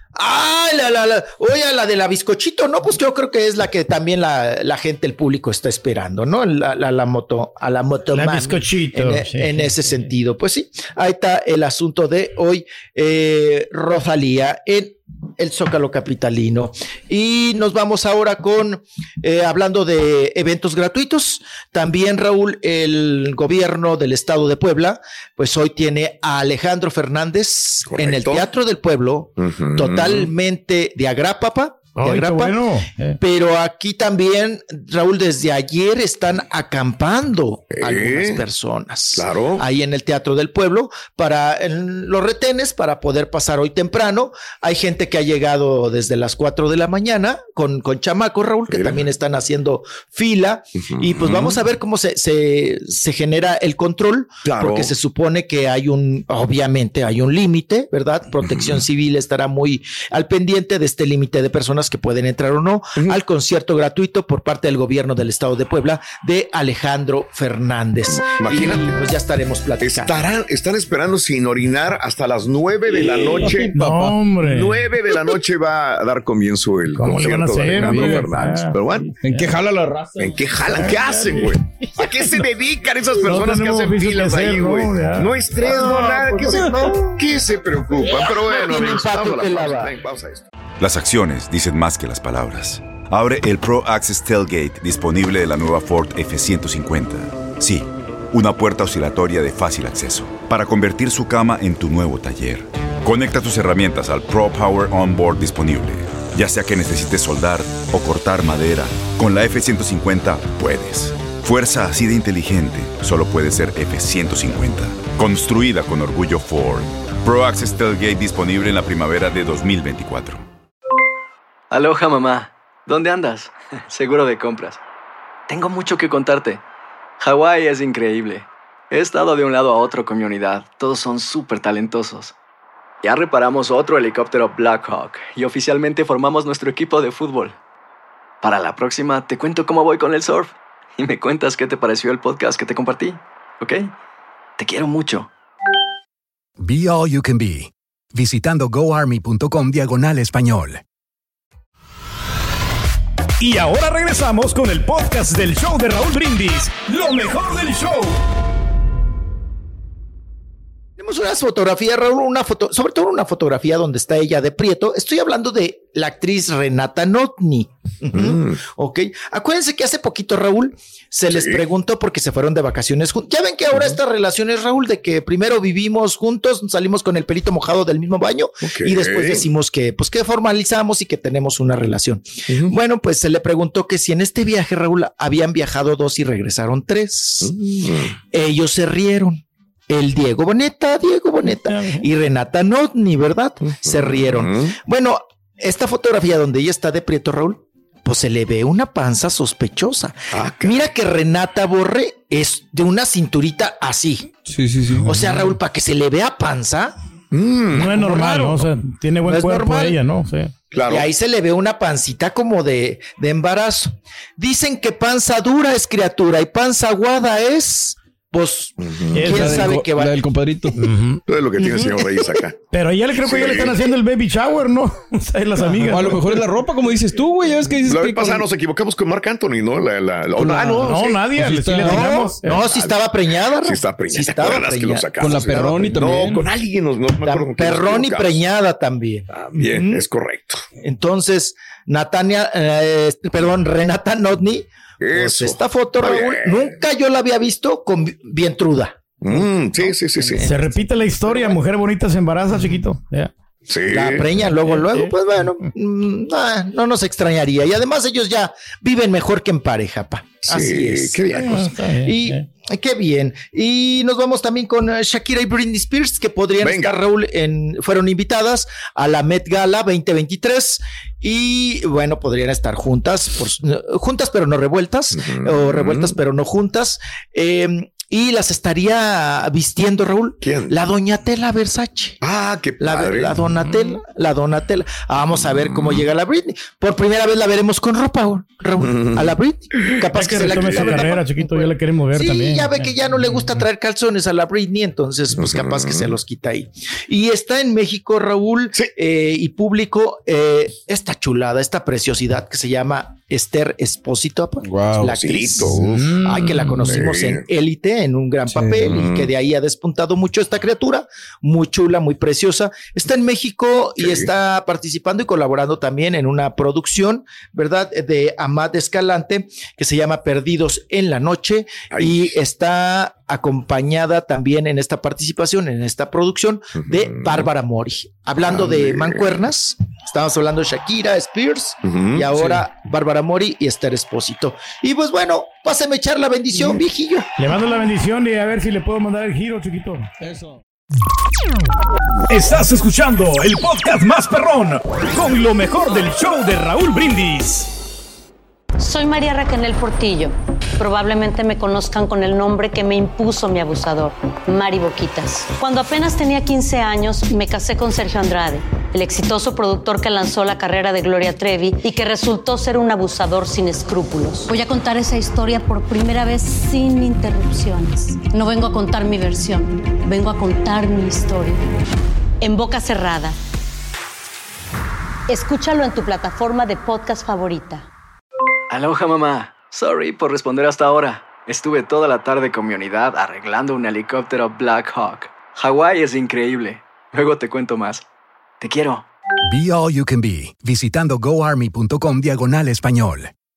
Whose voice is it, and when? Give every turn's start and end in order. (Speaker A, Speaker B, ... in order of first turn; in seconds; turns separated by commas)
Speaker A: 0.1-32.6, Speaker B: 8.1-9.9, Speaker C: 27.9-28.5, Speaker C: 29.4-30.3, Speaker B: 31.9-33.2, Speaker A: 33.2-70.1, Speaker C: 37.7-38.4, Speaker C: 39.1-39.6, Speaker C: 48.7-49.0, Speaker C: 50.9-51.6, Speaker C: 54.4-54.9, Speaker C: 58.4-58.8, Speaker C: 68.1-68.9, Speaker C: 69.8-79.1, Speaker D: 73.0-73.7, Speaker B: 73.7-74.8, Speaker B: 76.9-78.8, Speaker D: 78.9-80.4, Speaker C: 80.2-90.5, Speaker B: 80.7-82.4, Speaker B: 83.2-86.0, Speaker A: 85.6-87.2, Speaker A: 88.4-89.9, Speaker E: 90.8-120.4, Speaker F: 121.7-124.8, Speaker F: 125.5-126.6, Speaker F: 127.2-132.3, Speaker F: 133.0-137.5, Speaker F: 138.4-143.9, Speaker F: 144.6-145.3, Speaker G: 146.6-150.8, Speaker B: 153.4-157.9, Speaker H: 153.6-158.1, Speaker A: 161.0-187.5, Speaker C: 168.1-168.6, Speaker C: 171.3-171.6, Speaker C: 178.6-179.4, Speaker C: 182.5-182.7, Speaker C: 187.4-188.2, Speaker A: 188.3-204.3, Speaker B: 191.5-192.0, Speaker C: 193.7-194.7, Speaker C: 200.3-200.8, Speaker D: 204.5-205.4, Speaker A: 205.0-206.9, Speaker C: 207.3-208.2, Speaker B: 207.7-210.5, Speaker A: 208.0-208.7, Speaker A: 209.2-210.0, Speaker C: 210.7-211.1, Speaker A: 210.9-220.2, Speaker C: 218.8-219.7, Speaker D: 219.2-220.8, Speaker B: 220.8-221.2, Speaker C: 221.3-222.6, Speaker A: 221.6-222.2, Speaker B: 222.7-226.3, Speaker C: 223.2-223.9, Speaker D: 225.6-228.5, Speaker C: 225.9-226.5, Speaker C: 227.7-231.3, Speaker D: 230.4-232.1, Speaker B: 230.6-232.6, Speaker A: 231.8-236.1, Speaker C: 232.4-238.5, Speaker D: 235.2-236.4, Speaker A: 237.2-240.0, Speaker C: 239.3-240.6, Speaker A: 240.8-250.7, Speaker C: 245.0-246.8, Speaker C: 249.2-250.6, Speaker B: 250.4-253.3, Speaker C: 253.7-254.4, Speaker A: 253.9-282.2, Speaker B: 254.5-255.1, Speaker C: 260.4-261.7, Speaker B: 261.5-262.4, Speaker C: 266.6-266.9, Speaker C: 275.1-276.2, Speaker C: 280.4-280.8, Speaker C: 282.2-283.4, Speaker A: 282.8-337.3, Speaker B: 283.7-284.0, Speaker C: 285.3-286.0, Speaker C: 288.8-291.0, Speaker B: 290.1-293.4, Speaker C: 295.3-296.1, Speaker D: 304.6-305.1, Speaker C: 305.1-307.4, Speaker D: 308.5-308.9, Speaker C: 308.9-309.3, Speaker C: 314.0-314.3, Speaker C: 321.9-322.4, Speaker C: 326.8-327.5, Speaker C: 328.4-329.4, Speaker C: 331.8-332.3, Speaker B: 337.4-340.1, Speaker D: 340.2-340.6, Speaker H: 342.3-347.7, Speaker B: 343.9-344.2, Speaker B: 345.4-346.1, Speaker B: 346.7-347.2, Speaker I: 348.8-371.6, Speaker I: 372.4-373.4, Speaker I: 375.3-377.9, Speaker F: 378.7-388.0, Speaker F: 388.6-389.0, Speaker G: 389.5-393.3